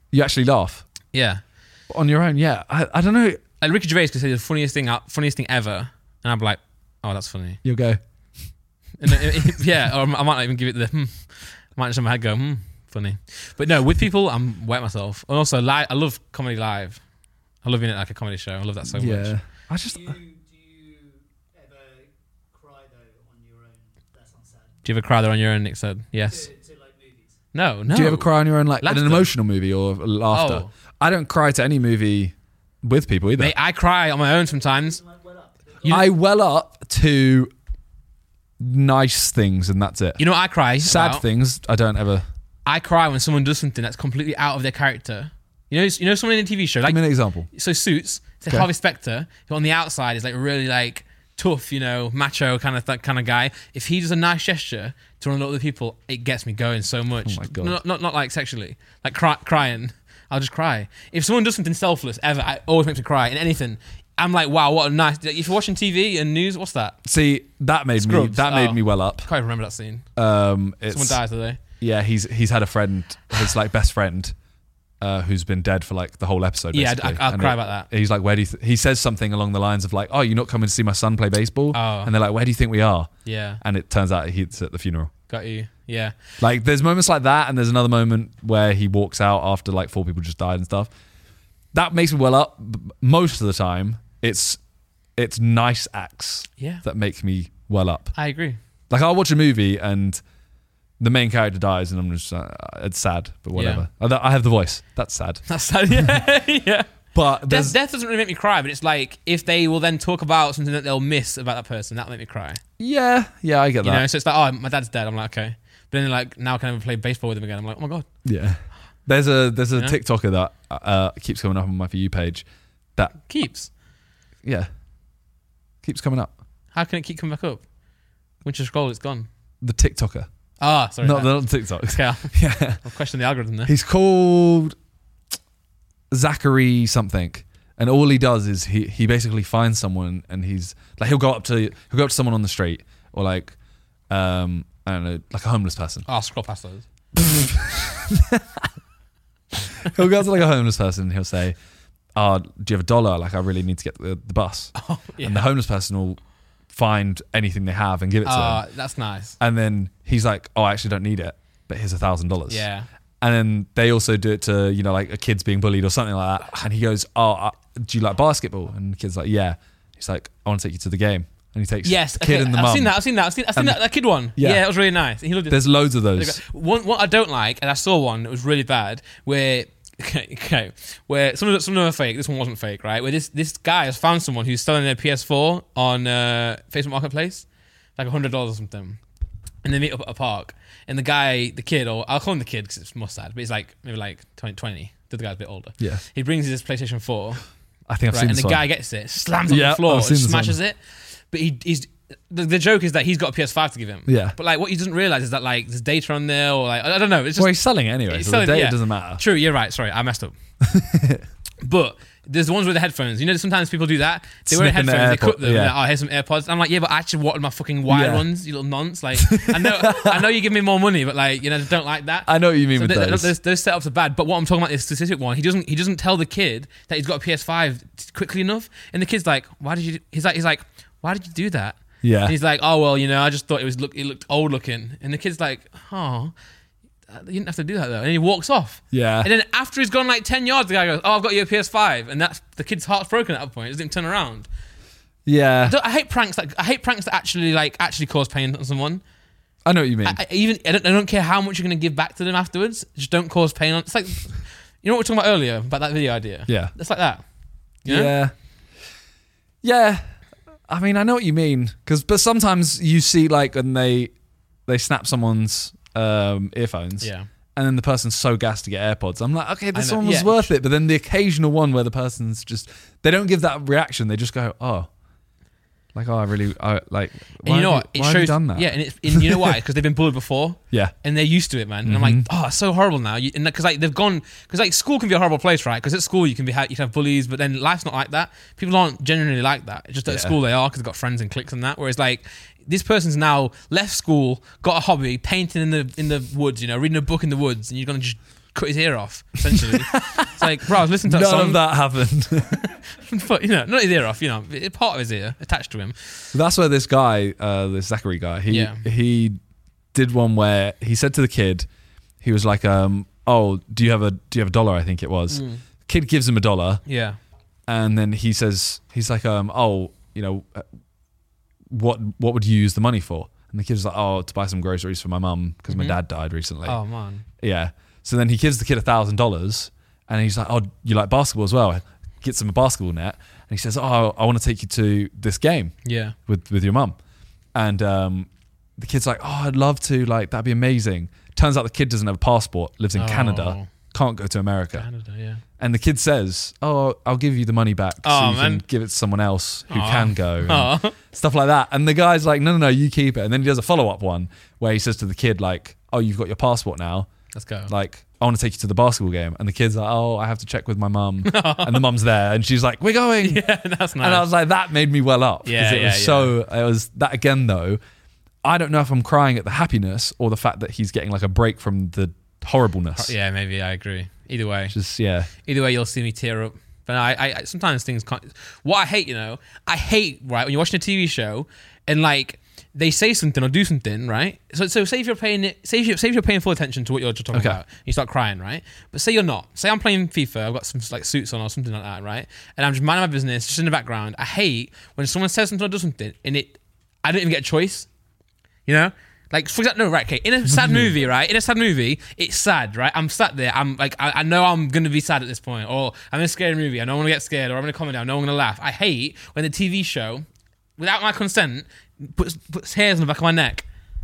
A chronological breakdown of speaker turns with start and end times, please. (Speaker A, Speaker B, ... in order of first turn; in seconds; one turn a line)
Speaker A: 0.1-0.9
Speaker B: 1.1-1.4
Speaker A: 1.9-3.4
Speaker B: 3.6-7.6
Speaker A: 7.6-8.0
Speaker B: 9.0-17.0
Speaker B: 17.6-19.4
Speaker A: 18.9-20.2
Speaker C: 19.8-24.8
Speaker B: 24.9-26.5
Speaker C: 26.3-27.4
Speaker B: 27.5-29.3
Speaker A: 27.9-33.5
Speaker B: 30.3-30.7
Speaker B: 33.4-35.0
Speaker C: 34.2-36.1
Speaker A: 35.9-37.5
Speaker A: 38.6-40.2
Speaker B: 40.2-41.2
Speaker A: 40.8-42.3
Speaker B: 42.7-67.0
Speaker A: 46.9-47.5
Speaker A: 57.2-57.8
Speaker A: 67.0-69.3
Speaker B: 68.0-70.1
Speaker A: 70.2-74.3
Speaker B: 70.9-71.6
Speaker A: 75.0-85.1
Speaker B: 76.7-77.9
Speaker B: 81.7-82.1
Speaker B: 83.2-83.6
Speaker B: 85.3-86.2
Speaker A: 86.4-90.9
Speaker A: 91.7-94.6
Speaker A: 95.2-98.2
Speaker B: 96.6-96.8
Speaker B: 98.2-98.6
Speaker A: 98.9-100.2
Speaker A: 101.0-105.4
Speaker B: 103.5-103.8
Speaker B: 105.5-112.6
Speaker A: 107.1-107.8
Speaker A: 112.8-114.0
Speaker B: 113.8-118.1
Speaker A: 118.2-123.2
Speaker B: 123.2-123.7
Speaker A: 124.4-124.7
Speaker A: 125.8-126.3
Speaker B: 126.7-127.7
Speaker B: 128.4-129.3
Speaker A: 129.6-130.3
Speaker B: 130.6-133.7
Speaker A: 131.0-132.8
Speaker A: 133.7-134.8
Speaker A: 136.1-143.6
Speaker A: 144.1-146.1
Speaker B: 146.1-146.9
Speaker A: 147.2-148.7
Speaker A: 149.8-151.6
Speaker A: 152.2-156.2
Speaker B: 154.8-155.4
Speaker A: 156.7-158.6
Speaker B: 158.2-159.4
Speaker A: 159.4-162.7
Speaker B: 162.5-162.9
Speaker A: 163.2-173.0
Speaker B: 171.8-189.0
Speaker A: 173.5-174.7
Speaker A: 175.5-176.4
Speaker B: 189.6-197.4
Speaker A: 197.9-198.6
Speaker B: 198.1-200.8
Speaker A: 199.5-200.6
Speaker B: 201.3-207.6
Speaker A: 204.1-204.3
Speaker A: 207.4-209.2
Speaker B: 208.1-210.3
Speaker A: 210.6-211.2
Speaker B: 211.6-236.3
Speaker A: 214.5-215.8
Speaker A: 217.9-218.3
Speaker A: 219.2-220.2
Speaker A: 222.3-223.3
Speaker A: 232.0-232.3
Speaker B: 237.1-244.5
Speaker A: 238.9-239.3
Speaker A: 245.3-245.8
Speaker B: 245.6-249.0
Speaker A: 249.7-250.2
Speaker B: 250.1-257.2
Speaker A: 256.5-256.7
Speaker B: 257.8-258.1
Speaker A: 257.9-258.3
Speaker A: 259.6-260.2
Speaker A: 260.7-264.1
Speaker A: 264.7-274.9
Speaker B: 267.0-267.3
Speaker B: 269.8-270.5
Speaker A: 275.9-279.6
Speaker B: 277.4-301.6
Speaker A: 281.9-282.3
Speaker A: 290.1-290.4
Speaker A: 299.7-300.5
Speaker A: 301.0-302.6
Speaker B: 302.5-306.3
Speaker A: 306.3-309.4
Speaker B: 308.5-308.8
Speaker A: 309.9-311.7
Speaker A: 312.2-316.8
Speaker B: 315.3-315.6
Speaker B: 316.9-317.2
Speaker A: 317.7-320.7
Speaker A: 321.7-326.8
Speaker B: 325.7-326.0
Speaker B: 326.6-327.2
Speaker A: 327.4-335.8
Speaker B: 335.9-336.2
Speaker A: 336.3-337.0
Speaker A: 337.6-344.9
Speaker B: 342.9-343.7
Speaker B: 344.7-345.4
Speaker A: 345.6-357.1
Speaker B: 348.0-348.6
Speaker B: 349.7-351.0
Speaker B: 357.3-357.7
Speaker A: 357.7-363.4
Speaker B: 361.2-361.9
Speaker B: 363.2-364.3
Speaker A: 364.0-367.8
Speaker B: 365.4-366.3
Speaker A: 368.4-373.1
Speaker B: 373.0-374.8
Speaker A: 374.7-375.3
Speaker B: 375.4-397.9
Speaker A: 387.3-387.6
Speaker B: 398.7-410.2
Speaker A: 400.6-400.9
Speaker B: 410.8-413.7